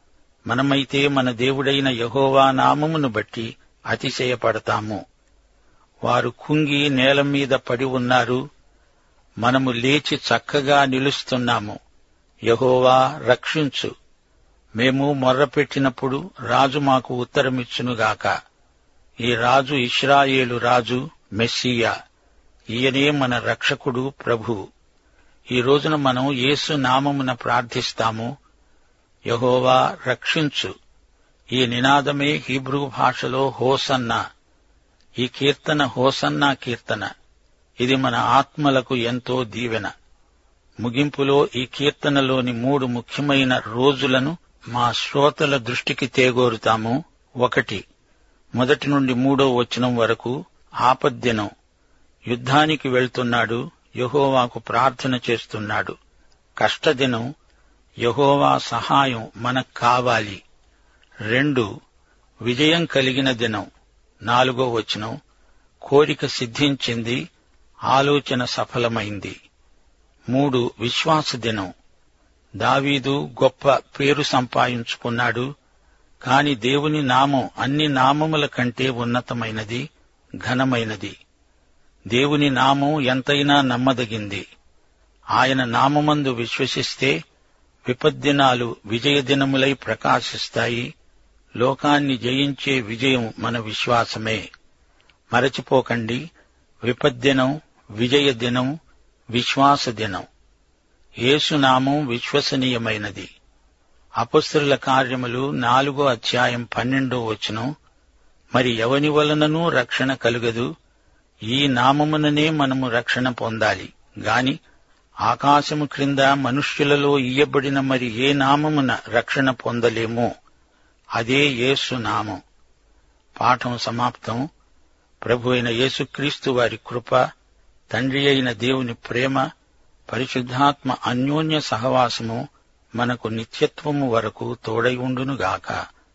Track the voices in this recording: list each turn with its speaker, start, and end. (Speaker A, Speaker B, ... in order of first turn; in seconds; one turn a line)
Speaker A: 0.5-5.0
Speaker A: 6.0-8.4
Speaker A: 9.4-11.8
Speaker A: 12.5-13.9
Speaker A: 14.8-18.3
Speaker A: 19.2-21.9
Speaker A: 22.7-24.6
Speaker A: 25.5-28.3
Speaker A: 29.3-30.7
Speaker A: 31.5-34.2
Speaker A: 35.2-37.1
Speaker A: 37.8-39.9
Speaker A: 40.8-47.8
Speaker A: 48.5-50.3
Speaker A: 50.8-51.5
Speaker A: 52.3-55.9
Speaker A: 56.6-57.3
Speaker A: 58.0-60.4
Speaker A: 61.3-61.7
Speaker A: 62.4-63.6
Speaker A: 64.3-65.1
Speaker A: 65.8-67.2
Speaker A: 67.9-69.3
Speaker A: 70.3-71.7
Speaker A: 72.6-75.5
Speaker A: 76.2-79.8
Speaker A: 80.4-81.1
Speaker A: 82.1-84.4
Speaker A: 85.3-87.1
Speaker A: 87.8-90.9
Speaker A: 91.6-94.4
Speaker A: 95.3-96.2
Speaker A: 96.8-98.7
Speaker A: 99.3-100.2
Speaker A: 101.2-103.3
Speaker A: 104.2-107.7
Speaker A: 108.5-110.7
Speaker A: 111.5-114.6
Speaker A: 115.2-120.3
Speaker A: 121.2-122.4
Speaker A: 123.4-124.5
Speaker A: 125.2-127.2
Speaker A: 127.9-129.4
Speaker A: 130.1-132.4
Speaker A: 133.0-135.8